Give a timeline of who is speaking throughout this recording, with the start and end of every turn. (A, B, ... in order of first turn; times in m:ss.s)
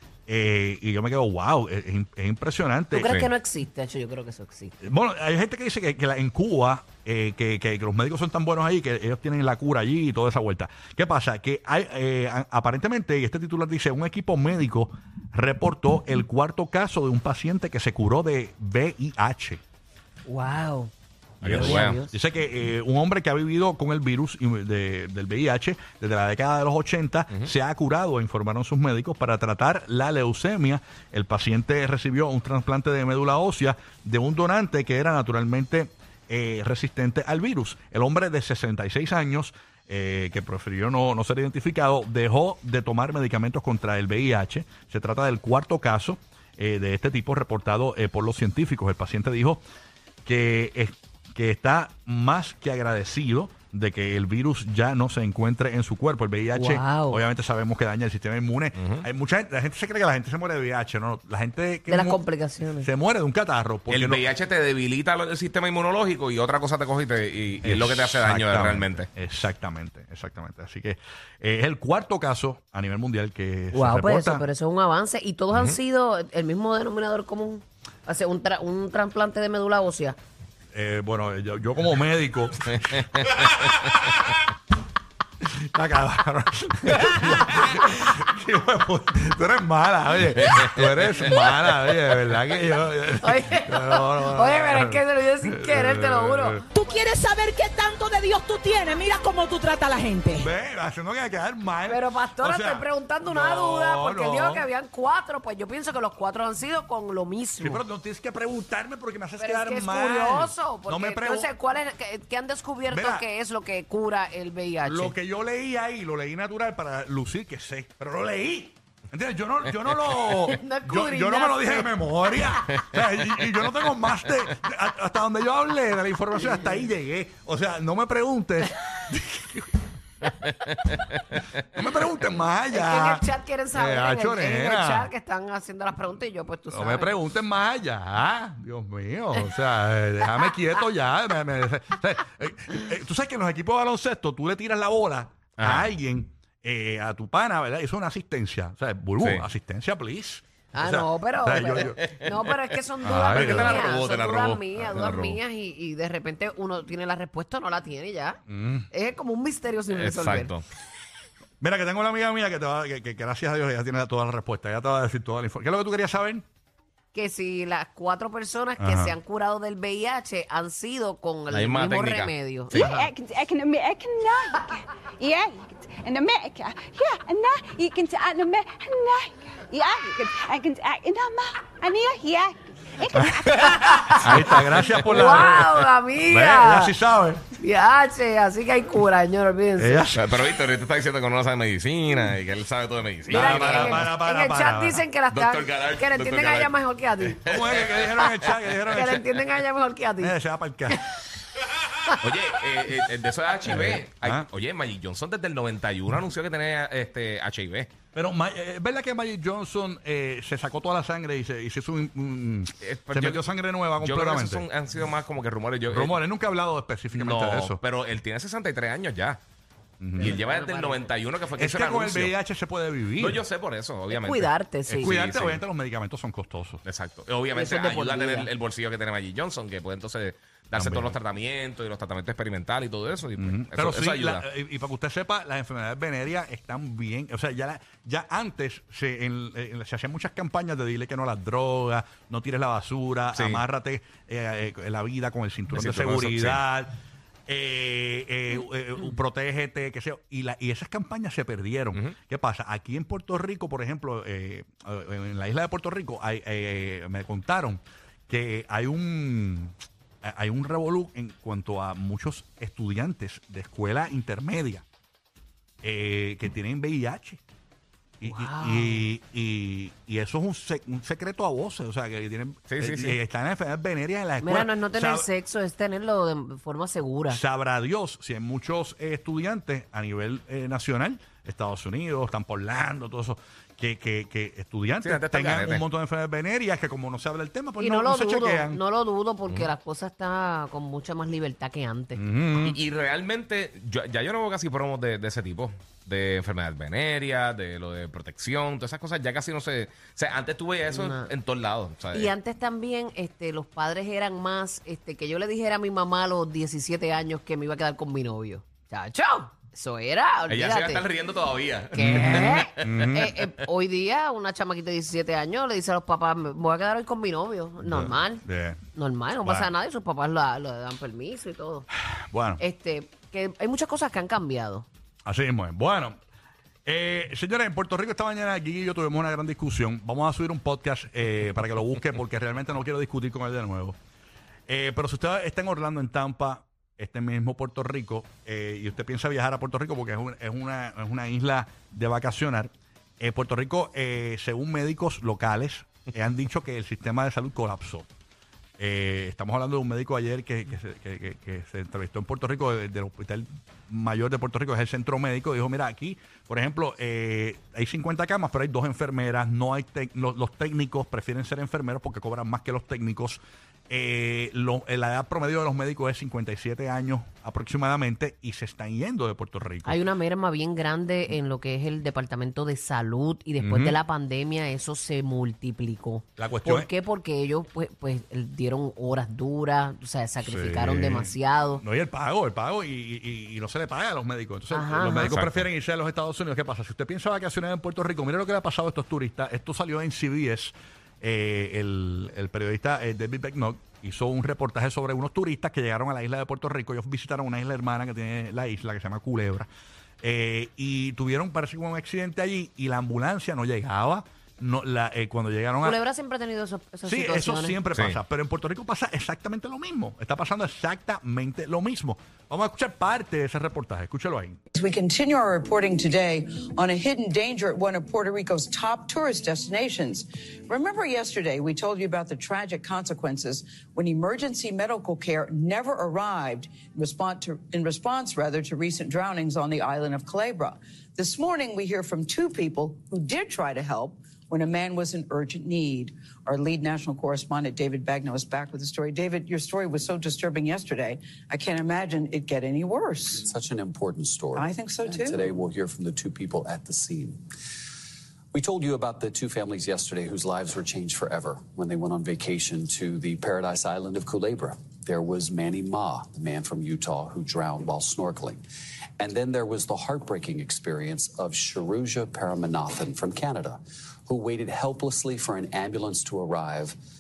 0:00.3-0:03.3 A
0:02.9-0:04.8 B
0:04.8-0:19.6 A
0:20.3-0:20.9 B
0:21.4-0:22.0 C
0:21.4-0:49.6 A
0:21.4-0:22.1 B
0:50.2-1:02.2 A
0:56.5-0:57.2 B
0:58.8-0:59.0 C
1:01.9-1:02.9 B
1:02.8-1:04.2 A
1:03.9-1:09.1 C
1:07.6-1:14.4 A
1:13.7-1:20.2 B
1:20.7-1:24.4 A
1:23.0-1:23.6 C
1:25.4-1:36.6 A
1:30.4-1:30.8 C
1:33.2-1:36.7 B
1:36.7-1:40.5 D
1:40.4-1:44.6 A
1:41.9-1:47.8 B
1:47.6-1:51.5 A
1:49.4-1:55.2 B
1:52.9-1:53.3 A
1:54.8-2:09.8 A
2:00.5-2:01.9 B
2:11.7-2:15.1 A
2:12.7-2:17.1 B
2:16.7-2:32.0 A
2:25.6-2:25.9 C
2:30.7-2:38.4 B
2:32.0-2:32.3 C
2:33.0-2:33.9 A
2:33.2-2:35.4 C
2:38.5-2:38.9 A
2:38.9-2:40.5 B
2:39.9-2:40.6 C
2:41.6-2:46.4 A
2:47.1-2:52.9 B
2:48.8-2:49.2 A
2:51.5-2:52.9 C
2:52.7-3:03.9 E
3:03.2-3:07.4 A
3:03.6-3:04.5 B
3:05.0-3:06.9 B
3:07.6-3:10.1 B
3:09.8-3:10.4 A
3:10.1-3:14.1 C
3:13.3-3:15.0 A
3:13.3-3:17.4 B
3:15.3-3:16.7 C
3:17.4-3:18.1 C
3:17.5-3:19.3 A
3:18.9-3:20.3 B
3:20.2-3:21.0 A
3:22.2-3:27.9 C
3:23.7-3:24.5 A
3:28.1-3:34.6 A
3:32.8-3:33.4 C
3:34.0-3:36.2 C
3:35.9-3:37.8 A
3:37.1-3:39.4 C
3:40.0-3:40.4 A
3:40.2-3:41.1 B
3:40.2-3:42.3 C
3:41.6-3:43.4 A
3:43.2-3:45.6 C
3:44.1-3:45.2 B
3:44.9-3:46.8 A
3:46.8-3:54.4 C
3:47.5-3:48.5 B
3:50.8-3:51.2 A
3:53.4-4:06.9 A
4:03.3-4:03.6 C
4:05.7-4:06.6 C
4:07.5-4:24.8 A
4:25.8-4:27.4 A
4:28.2-4:35.3 A
4:28.2-4:29.0 B
4:32.7-4:33.2 C
4:34.4-4:37.4 B
4:37.3-4:48.8 A
4:45.0-4:45.8 C
4:47.8-4:52.2 B
4:52.2-4:52.8 A
4:52.6-5:02.3 C
5:00.9-5:01.3 B
5:02.1-5:11.0 B
5:10.5-5:13.1 C
5:11.9-5:18.4 B
5:12.0-5:13.3 A
5:17.8-5:18.8 A
5:19.0-5:21.9 B
5:19.4-5:19.7 A
5:22.3-5:22.6 A
5:22.6-5:24.9 B
5:25.2-5:26.2 A
5:26.9-5:34.0 A
5:34.7-5:48.1 A
5:48.8-6:10.0 A
6:09.8-6:21.8 B
6:13.6-6:14.0 A
6:16.4-6:16.9 A
6:20.4-6:39.7 A
6:24.7-6:25.4 B
6:25.3-6:25.6 C
6:40.2-6:46.0 A
6:45.8-6:47.8 B
6:47.1-6:54.6 A
6:54.7-7:23.5 F
7:23.4-7:27.4 G
7:24.5-7:25.5 F
7:28.5-7:38.6 G
7:39.2-7:47.0 G